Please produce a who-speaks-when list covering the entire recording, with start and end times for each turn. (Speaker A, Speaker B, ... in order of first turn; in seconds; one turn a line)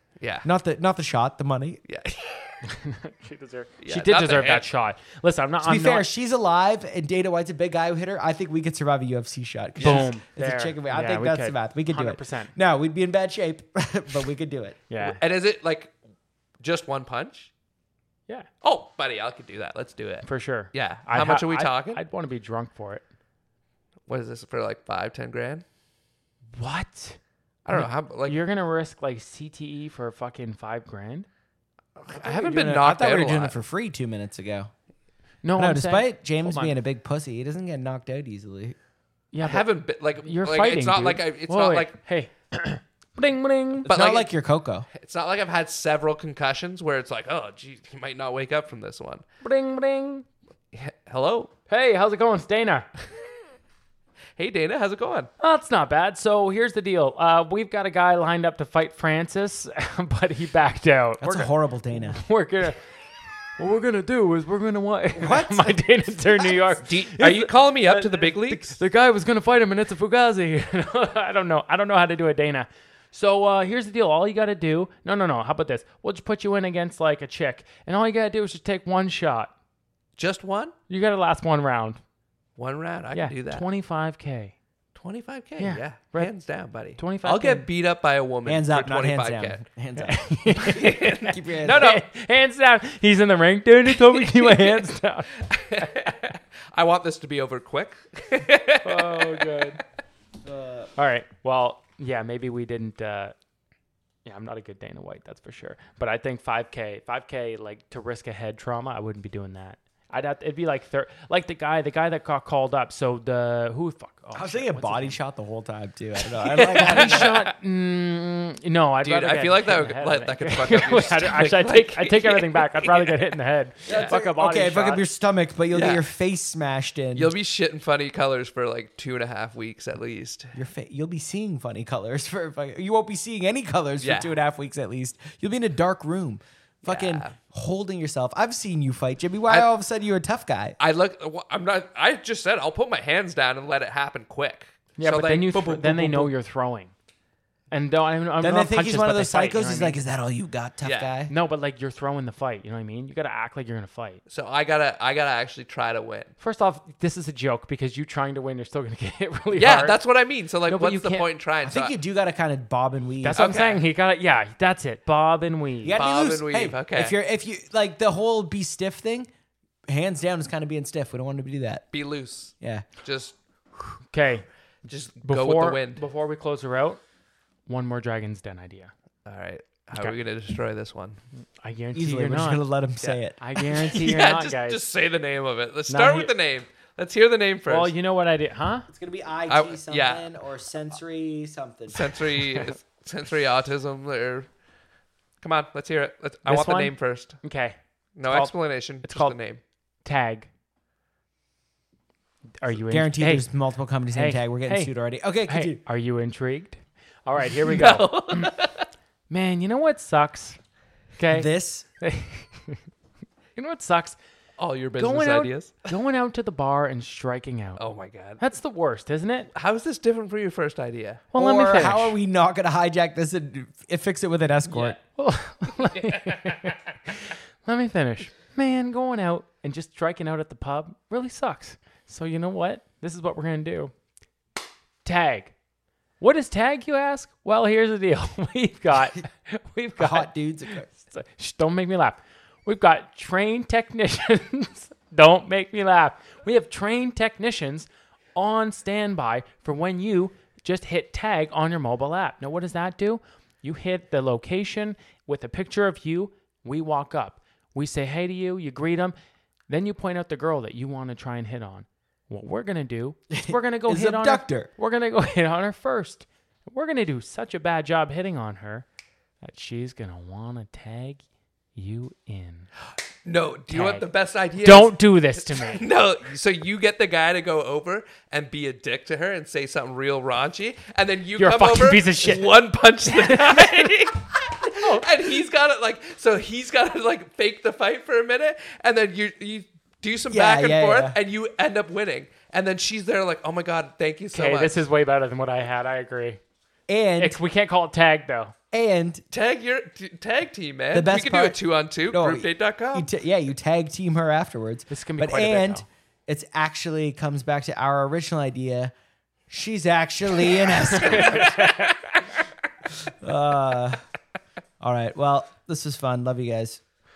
Speaker A: 0.2-0.5
Speaker B: 0.4-1.8
Speaker A: 1.9-2.6
Speaker C: 2.6-6.0
Speaker A: 3.8-4.7
Speaker B: 5.6-14.8
Speaker A: 9.8-10.1
Speaker C: 9.8-12.5
Speaker C: 14.9-15.2
Speaker A: 15.0-15.9
Speaker A: 16.6-17.5
Speaker A: 18.6-22.0
Speaker C: 20.2-23.0
Speaker A: 24.1-25.6
Speaker C: 26.6-27.2
Speaker A: 27.6-28.4
Speaker C: 27.7-31.3
Speaker A: 32.0-33.6
Speaker B: 32.1-34.7
Speaker C: 35.4-36.8
Speaker B: 35.5-38.8
Speaker C: 39.3-39.6
Speaker A: 39.4-42.0
Speaker C: 40.2-43.9
Speaker A: 43.8-44.3
Speaker B: 43.9-44.9
Speaker A: 44.9-49.2
Speaker C: 49.4-50.2
Speaker A: 50.7-51.5
Speaker C: 51.7-52.9
Speaker A: 54.4-55.3
Speaker C: 55.4-62.8
Speaker B: 61.2-62.2
Speaker C: 63.6-79.5
Speaker B: 65.2-66.7
Speaker A: 66.8-68.8
Speaker A: 80.2-80.7
Speaker C: 80.9-82.0
Speaker A: 82.6-83.7
Speaker C: 83.1-84.5
Speaker A: 84.9-89.6
Speaker C: 85.6-86.3
Speaker C: 87.0-87.7
Speaker B: 88.5-91.9
Speaker C: 90.0-96.1
Speaker A: 90.6-92.0
Speaker A: 94.0-94.7
Speaker A: 95.4-99.8
Speaker C: 98.8-99.8
Speaker B: 100.4-100.9
Speaker C: 101.0-103.3
Speaker C: 104.2-115.2
Speaker B: 114.3-117.4
Speaker A: 116.4-117.5
Speaker C: 116.8-125.0
Speaker A: 119.0-123.3
Speaker A: 123.8-124.2
Speaker B: 123.8-127.3
Speaker A: 125.7-126.0
Speaker A: 127.1-130.6
Speaker B: 130.5-140.8
Speaker A: 134.0-134.3
Speaker A: 136.8-137.3
Speaker A: 140.8-146.3
Speaker C: 145.0-146.9
Speaker C: 147.7-150.0
Speaker B: 148.4-151.3
Speaker A: 150.8-151.1
Speaker C: 151.3-154.2
Speaker A: 154.3-156.3
Speaker C: 156.4-160.0
Speaker A: 159.5-161.9
Speaker C: 160.7-161.3
Speaker B: 161.6-163.6
Speaker C: 163.2-166.0
Speaker A: 163.3-163.8
Speaker B: 165.8-169.3
Speaker A: 165.9-167.2
Speaker B: 169.9-171.8
Speaker A: 171.9-174.0
Speaker B: 172.6-172.9
Speaker C: 174.1-174.5
Speaker A: 174.9-176.0
Speaker C: 175.2-177.0
Speaker C: 177.7-178.9
Speaker A: 179.2-181.2
Speaker C: 181.6-182.6
Speaker B: 181.9-183.4
Speaker C: 183.4-184.8
Speaker A: 183.9-187.9
Speaker C: 185.9-186.3
Speaker C: 187.7-188.9
Speaker B: 188.9-192.1
Speaker A: 189.5-190.3
Speaker A: 191.9-194.5
Speaker A: 195.4-197.4
Speaker C: 196.4-199.4
Speaker A: 198.2-199.6
Speaker C: 200.0-200.5
Speaker C: 202.6-203.5
Speaker B: 202.9-205.8
Speaker C: 204.1-204.9
Speaker C: 205.5-208.5
Speaker A: 207.6-208.9
Speaker C: 209.3-210.6
Speaker C: 211.2-212.8
Speaker B: 211.3-211.9
Speaker C: 213.6-214.2
Speaker A: 214.6-215.9
Speaker C: 215.0-217.8
Speaker A: 217.8-218.4
Speaker C: 218.4-219.5
Speaker A: 219.5-221.2
Speaker C: 221.3-222.2
Speaker B: 221.3-225.0
Speaker C: 225.0-233.9
Speaker C: 235.0-235.5
Speaker C: 236.2-240.3
Speaker B: 240.0-241.1
Speaker C: 240.9-259.1
Speaker C: 259.7-268.8
Speaker B: 263.3-264.7
Speaker C: 269.4-271.2
Speaker C: 271.7-272.7
Speaker A: 273.2-294.8
Speaker C: 273.7-274.1
Speaker C: 274.6-275.8
Speaker C: 281.4-282.5
Speaker C: 283.1-283.9
Speaker B: 290.3-291.2
Speaker C: 294.3-296.4
Speaker B: 296.9-297.4
Speaker C: 297.2-298.5
Speaker B: 298.7-299.2
Speaker A: 299.3-303.1
Speaker B: 300.9-308.9
Speaker C: 304.9-305.8
Speaker B: 309.5-311.6
Speaker C: 310.8-312.0
Speaker A: 311.1-311.6
Speaker B: 313.2-314.0
Speaker B: 314.8-316.8